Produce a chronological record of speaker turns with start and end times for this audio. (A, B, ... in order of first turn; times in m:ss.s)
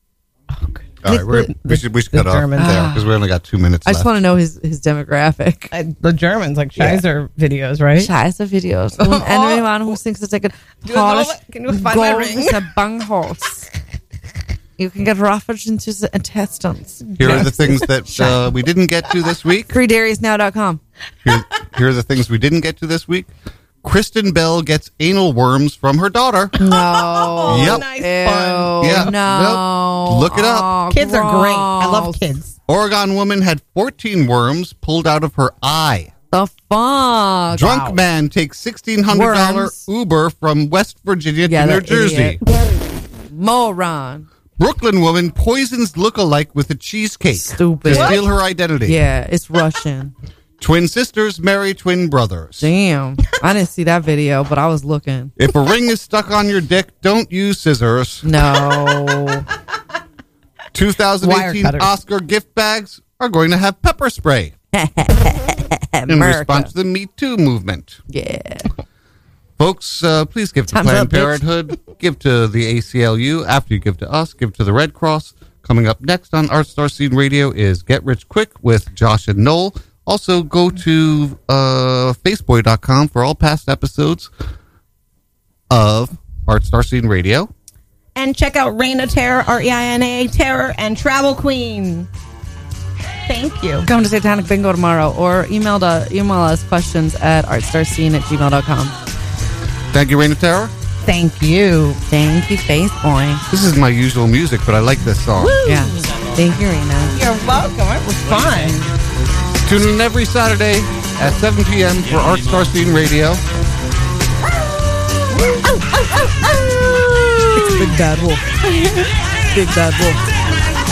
0:00.5-0:02.8 A
0:01.0-0:04.1 B
0:02.6-0:03.1 C
0:03.9-0:05.7 C
0:05.7-0:08.1 A
0:08.0-0:13.7 C
0:09.0-0:09.9 A
0:10.8-0:12.7 A
0:14.8-0:18.5 C
0:17.2-0:19.8 B
0:17.2-0:17.6 A
0:19.7-0:20.8 C
0:21.2-0:23.3 B
0:23.8-0:26.6 B
0:26.6-0:29.1 A
0:26.6-0:32.2 C
0:27.5-0:27.8 B
0:28.8-0:30.7 B
0:30.9-0:32.6 A
0:32.7-0:36.1 B
0:36.3-0:38.0 C
0:37.5-0:42.4 B
0:39.1-0:39.8 C
0:41.5-0:42.4 C
0:43.3-0:44.3 C
0:44.6-0:49.0 B
0:47.3-0:48.2 C
0:47.9-0:48.2 A
0:48.8-0:50.1 C
0:50.6-0:52.7 B
0:52.6-0:55.3 C
0:55.4-0:58.3 B
0:58.2-0:59.4 C
1:00.7-1:04.5 B
1:01.2-1:01.9 A
1:04.7-1:06.7 C
1:06.1-1:08.0 B
1:08.1-1:08.7 C
1:09.6-1:24.3 B
1:10.7-1:11.4 C
1:25.7-1:27.5 B
1:28.2-1:32.1 A
1:33.3-1:33.9 A
1:33.8-1:39.0 C
1:39.9-1:40.7 B
1:41.0-1:42.0 A
1:42.1-1:43.4 C
1:43.5-1:45.6 B
1:45.4-1:46.1 A
1:45.6-1:47.2 C
1:47.1-1:49.0 A
1:49.6-1:53.4 B
1:55.4-1:56.3 A
1:57.3-1:58.0 A
1:57.6-1:58.4 C
1:58.6-1:59.2 A
1:59.5-2:00.2 C